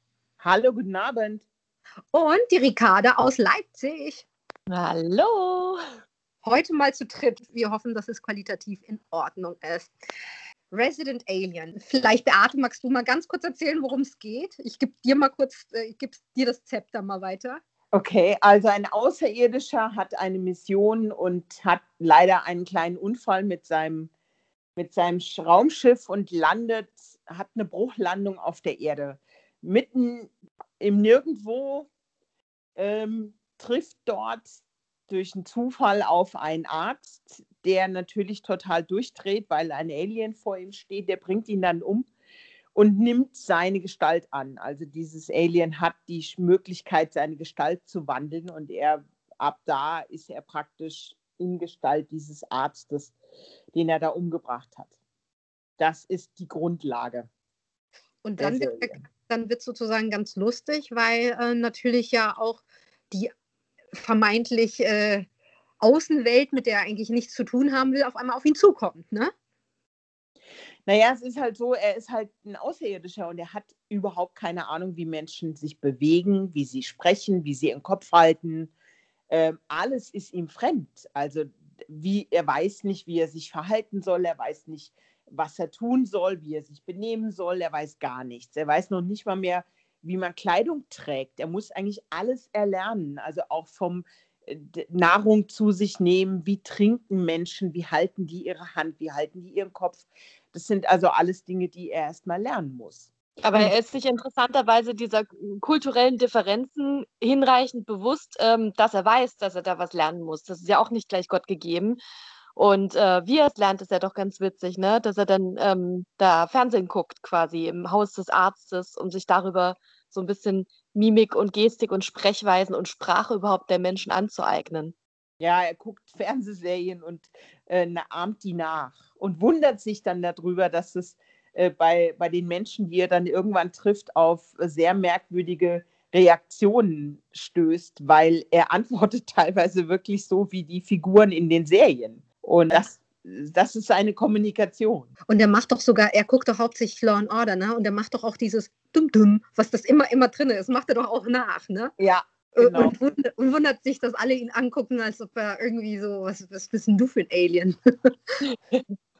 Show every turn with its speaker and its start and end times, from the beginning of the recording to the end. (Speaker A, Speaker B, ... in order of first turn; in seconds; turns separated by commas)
Speaker A: 0.4-1.4, Speaker B: 2.1-4.3, Speaker C: 4.7-5.8, Speaker B: 6.4-9.9, Speaker B: 10.7-17.6, Speaker A: 17.9-24.1, Speaker A: 24.8-31.9, Speaker A: 32.8-34.5, Speaker A: 35.1-42.1, Speaker A: 42.7-53.1, Speaker A: 53.7-54.9, Speaker A: 55.8-57.3, Speaker B: 58.2-63.3, Speaker A: 58.4-59.0, Speaker B: 63.9-65.2, Speaker B: 65.8-69.3, Speaker A: 70.8-78.7, Speaker A: 79.3-103.1, Speaker C: 103.4-112.0, Speaker C: 112.5-124.9, Speaker A: 125.4-145.1, Speaker B: 145.3-151.9, Speaker A: 152.0-152.9, Speaker B: 152.6-158.4, Speaker C: 158.5-158.8